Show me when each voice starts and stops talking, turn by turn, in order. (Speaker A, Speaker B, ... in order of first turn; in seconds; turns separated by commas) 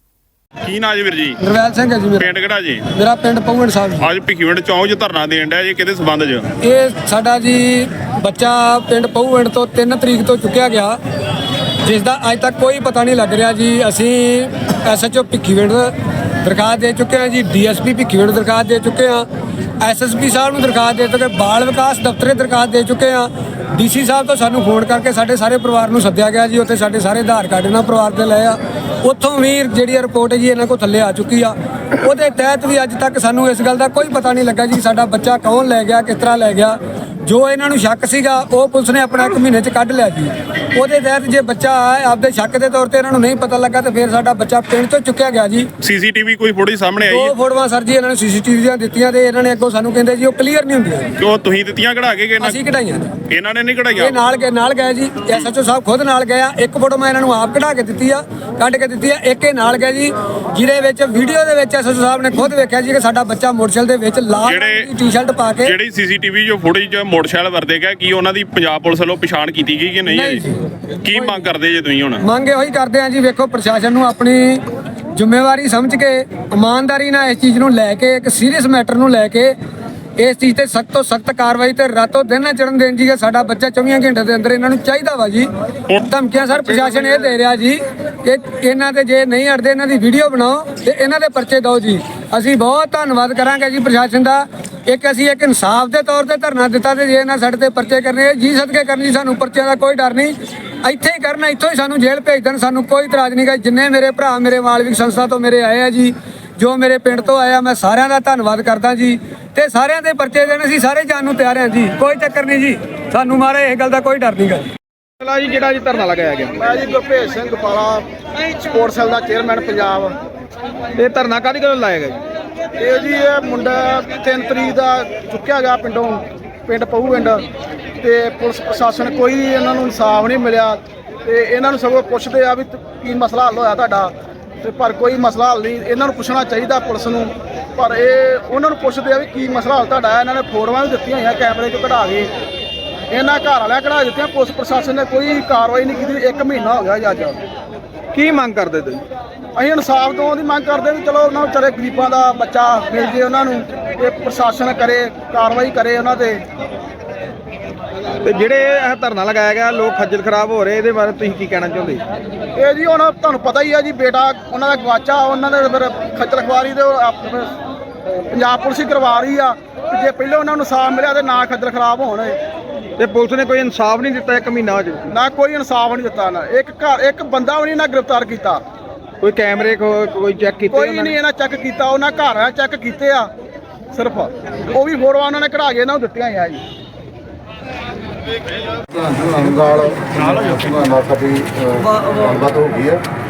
Speaker A: 0.7-1.4, Speaker B: 1.4-2.3, Speaker A: 2.2-2.8, Speaker B: 3.0-4.1, Speaker A: 4.0-6.5, Speaker B: 6.6-11.0, Speaker B: 11.8-15.9, Speaker B: 16.4-19.2, Speaker B: 19.8-45.7, Speaker A: 45.8-47.4, Speaker B: 47.1-51.1, Speaker A: 51.2-52.6, Speaker B: 52.4-53.2, Speaker A: 53.3-54.2, Speaker B: 54.0-65.7, Speaker A: 64.5-64.9, Speaker A: 65.7-70.4, Speaker B: 70.1-70.6, Speaker A: 71.0-72.2, Speaker B: 72.2-74.6, Speaker B: 75.2-79.5, Speaker B: 80.2-114.7, Speaker C: 115.2-116.5, Speaker D: 116.6-118.0, Speaker D: 118.6-120.1, Speaker C: 121.0-122.2, Speaker D: 122.8-127.5, Speaker D: 128.0-134.1, Speaker D: 134.6-142.3, Speaker D: 143.1-147.4, Speaker C: 148.1-149.0, Speaker D: 149.6-156.4, Speaker C: 158.2-162.0, Speaker D: 162.6-167.5, Speaker D: 168.3-172.4, Speaker C: 173.0-175.1, Speaker D: 175.1-178.6, Speaker C: 179.2-181.2, Speaker D: 180.7-183.3, Speaker D: 183.9-186.6, Speaker E: 188.9-193.0